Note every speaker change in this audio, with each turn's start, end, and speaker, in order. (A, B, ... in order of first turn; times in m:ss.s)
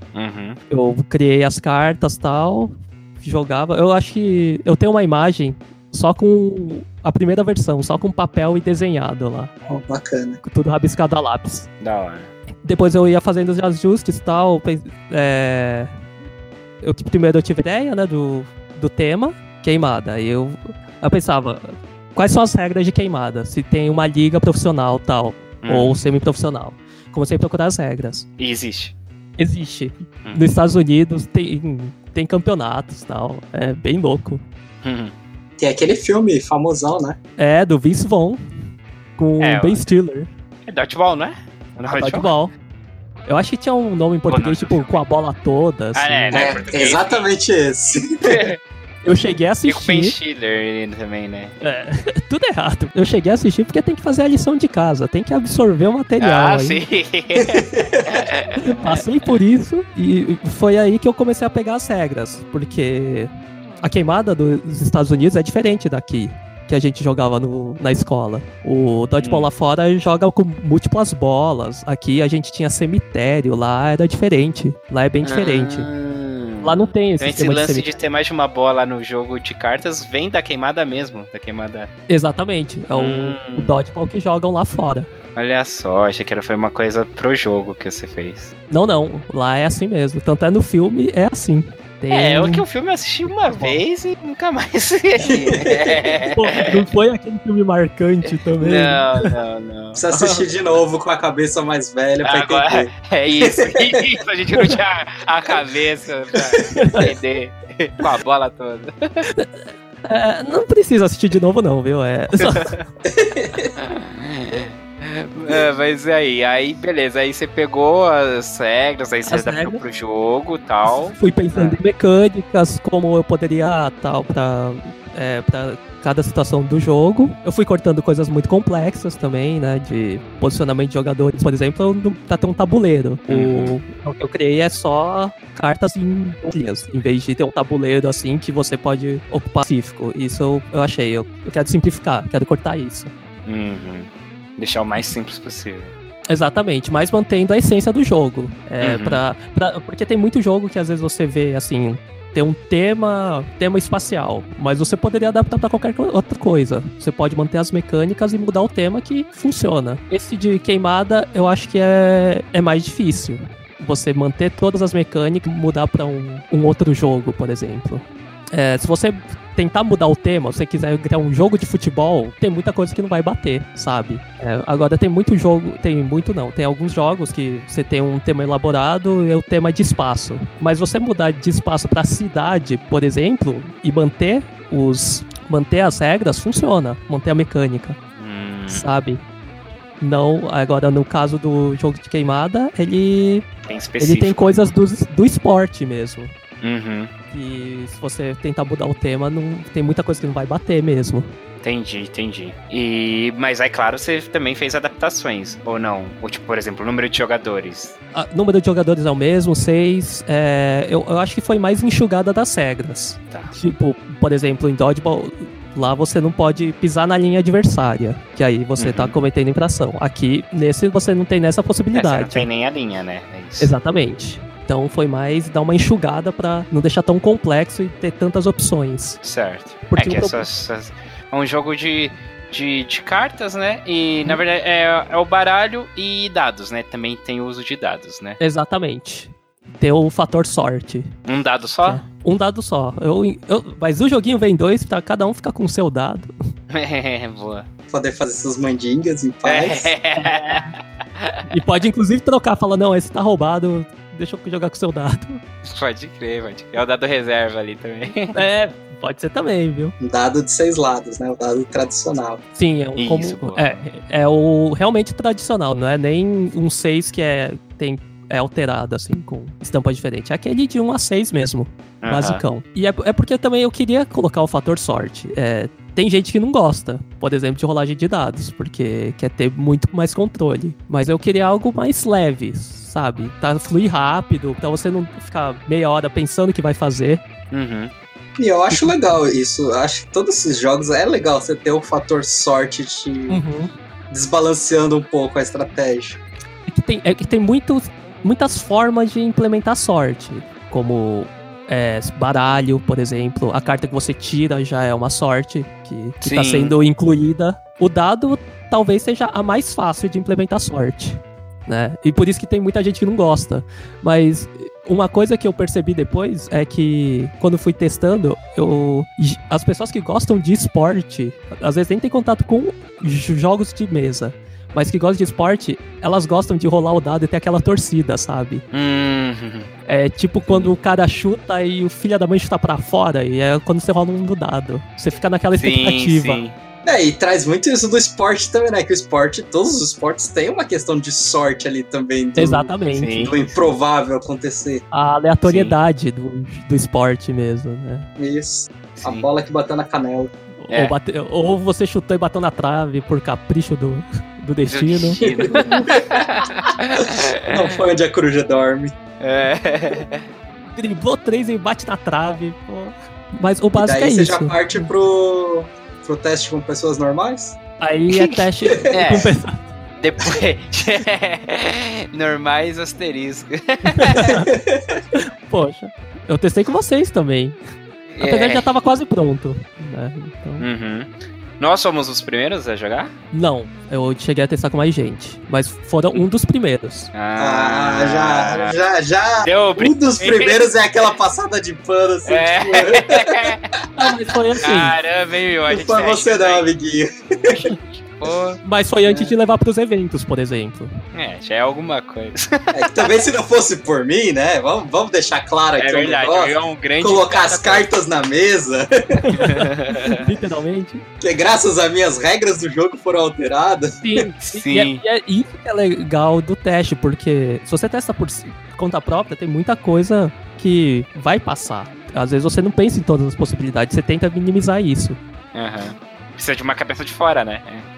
0:00.1-0:00.6 A
0:00.7-0:09.5 B
0:09.7-0:10.4 C
0:10.4-0:11.7 B
0:11.8-0:12.3 A
0:12.6-0:15.9 B
0:16.8-0:28.2 B
0:25.6-0:26.0 A
0:28.4-0:28.9 A
0:29.4-0:34.4 B
0:34.8-0:35.1 A
0:35.6-0:37.2 C
0:37.4-0:38.4 B
0:39.2-0:40.3 B
0:39.4-0:39.8 A
0:40.6-0:42.3 A
0:41.9-0:42.5 B
0:43.3-0:46.6 B
0:44.3-0:45.0 A
0:45.9-0:47.2 A
0:46.3-0:48.4 C
0:48.2-0:48.6 A
0:49.0-0:50.1 B
0:49.6-0:51.6 A
0:51.6-0:56.8 B
0:56.2-0:59.3 A
0:57.4-0:58.2 C
0:58.6-1:03.3 B
1:03.8-1:15.9 B
1:09.2-1:09.5 A
1:15.2-1:21.9 A
1:16.6-1:17.9 B
1:22.1-1:25.1 B
1:22.9-1:23.8 A
1:25.4-1:28.5 A
1:28.7-1:32.6 B
1:32.1-1:36.8 A
1:33.2-1:33.8 B
1:35.2-1:36.0 C
1:36.3-1:39.3 B
1:38.6-1:40.0 A
1:40.0-1:44.0 C
1:42.2-1:49.2 A
1:46.7-1:47.0 B
1:50.0-1:52.7 B
1:52.4-1:52.8 A
1:53.0-1:53.7 C
1:53.8-2:01.8 A
1:59.3-1:59.8 B
2:00.9-2:23.1 B
2:13.3-2:13.8 A
2:23.4-2:25.9 A
2:26.3-3:08.0 B
2:28.8-2:29.2 A
3:08.2-3:08.9 A
3:08.7-3:09.2 B
3:10.0-3:13.4 B
3:13.6-3:14.7 A
3:14.0-3:16.3 B
3:16.6-3:17.1 A
3:17.3-3:21.3 B
3:21.6-3:28.0 A
3:28.1-3:42.5 B
3:38.8-3:39.2 A
3:41.9-3:43.7 A
3:43.6-3:49.2 B
3:49.2-3:58.4 A
3:49.9-3:50.4 B
3:58.4-4:01.1 B
4:01.2-4:02.0 A
4:01.8-4:06.3 B
4:06.7-4:07.7 A
4:07.9-4:09.9 C
4:09.4-4:11.5 A
4:10.1-4:10.7 B
4:11.5-4:15.4 B
4:15.6-4:18.4 A
4:18.3-4:19.9 B
4:20.0-4:22.4 C
4:22.6-4:47.2 B
4:23.0-4:23.8 A
4:32.0-4:32.4 A
4:47.5-4:47.9 A
4:48.4-4:53.4 C
4:48.7-4:49.0 B
4:53.3-4:53.7 B
4:54.1-4:56.2 C
4:56.7-5:28.6 B
5:06.2-5:06.7 A
5:28.7-5:29.7 A
5:29.9-5:36.4 B
5:35.6-5:36.5 A
5:36.8-5:44.8 C
5:42.4-5:43.3 B
5:42.9-5:43.4 A
5:44.9-5:48.1 B
5:45.4-5:45.7 A
5:48.2-5:50.3 C
5:48.9-5:49.3 A
5:50.6-5:55.7 B
5:54.7-5:57.8 A
5:55.2-5:56.3 C
5:57.0-5:59.0 C
5:59.2-6:00.3 A
6:00.7-6:04.9 B
6:03.8-6:07.6 C
6:07.8-6:09.7 B
6:08.1-6:08.4 A
6:08.9-6:09.4 A
6:10.0-6:14.4 A
6:13.9-6:14.5 B
6:14.3-6:15.0 C
6:15.1-6:17.6 B
6:18.1-6:18.7 A
6:18.2-6:20.7 B
6:20.6-6:23.1 A
6:23.3-6:27.1 B
6:27.1-6:28.8 A
6:27.4-6:33.5 C
6:29.4-6:30.7 A
6:32.3-6:33.7 A
6:34.0-6:34.9 B
6:34.6-6:36.7 A
6:35.7-6:37.7 C
6:38.2-6:38.6 A
6:38.6-6:40.9 B
6:41.1-6:43.1 A
6:42.7-6:49.4 C
6:45.8-6:47.9 A
6:49.2-6:51.0 B
6:49.3-6:50.2 A
6:51.2-6:54.0 C
6:54.0-7:05.2 B
6:54.4-6:55.0 A
7:05.5-7:07.8 A